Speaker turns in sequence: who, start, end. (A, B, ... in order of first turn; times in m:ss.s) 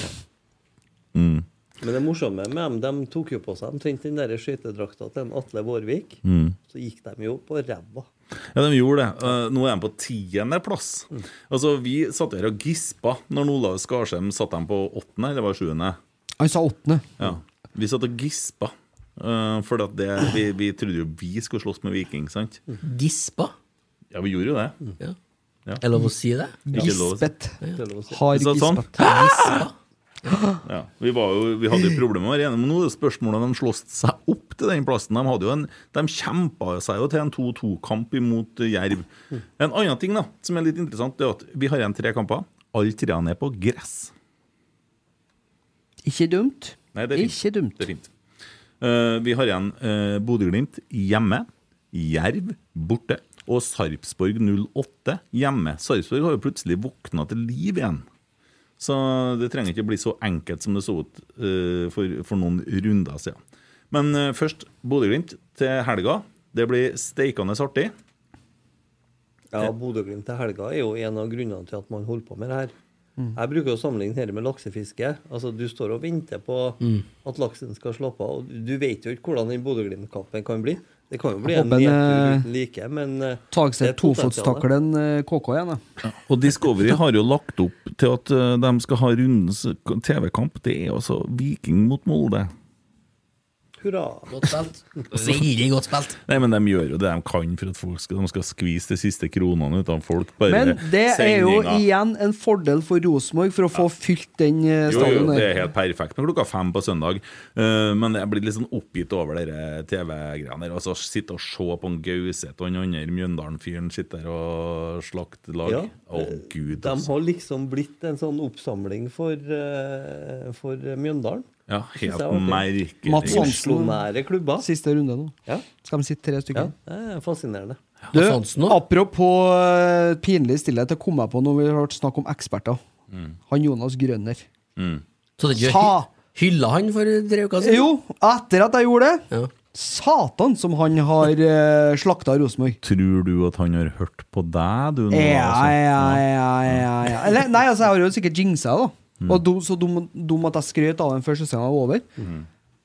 0:01.1-0:01.4 A
0:01.8-0:08.1 B
0:06.2-0:06.6 A
0:08.6-0:16.0 A
0:16.4-0:17.1 C
0:17.2-0:22.6 A
0:22.8-0:23.5 D
0:24.1-0:24.8 A
0:25.8-0:26.9 D
0:26.7-0:29.1 C
0:26.7-0:27.3 A
0:27.8-0:28.2 B
0:28.3-0:29.6 A
0:29.0-0:29.7 D
0:30.6-0:44.1 A
0:46.0-0:47.8 C
0:46.9-0:48.1 A
0:48.8-0:58.0 A
0:58.8-1:03.4 A
1:03.9-1:07.9 A
1:09.5-1:12.7 B
1:13.4-1:24.7 B
1:21.4-1:22.5 C
1:23.5-1:25.8 C
1:26.0-1:32.5 A
1:33.8-1:34.5 B
1:34.3-1:36.2 D
1:36.2-1:41.9 A
1:40.5-1:45.6 C
1:44.8-1:57.1 A
1:55.6-2:01.5 B
2:01.7-2:03.6 A
2:02.0-2:04.7 B
2:03.1-2:04.0 C
2:04.6-2:06.7 C
2:06.5-2:07.8 B
2:08.1-2:08.8 D
2:08.1-2:12.8 C
2:13.5-2:14.5 C
2:14.8-2:15.0 A
2:15.4-2:17.9 D
2:15.6-2:16.1 C
2:17.6-2:22.8 C
2:22.8-2:26.9 A
2:25.1-2:32.1 C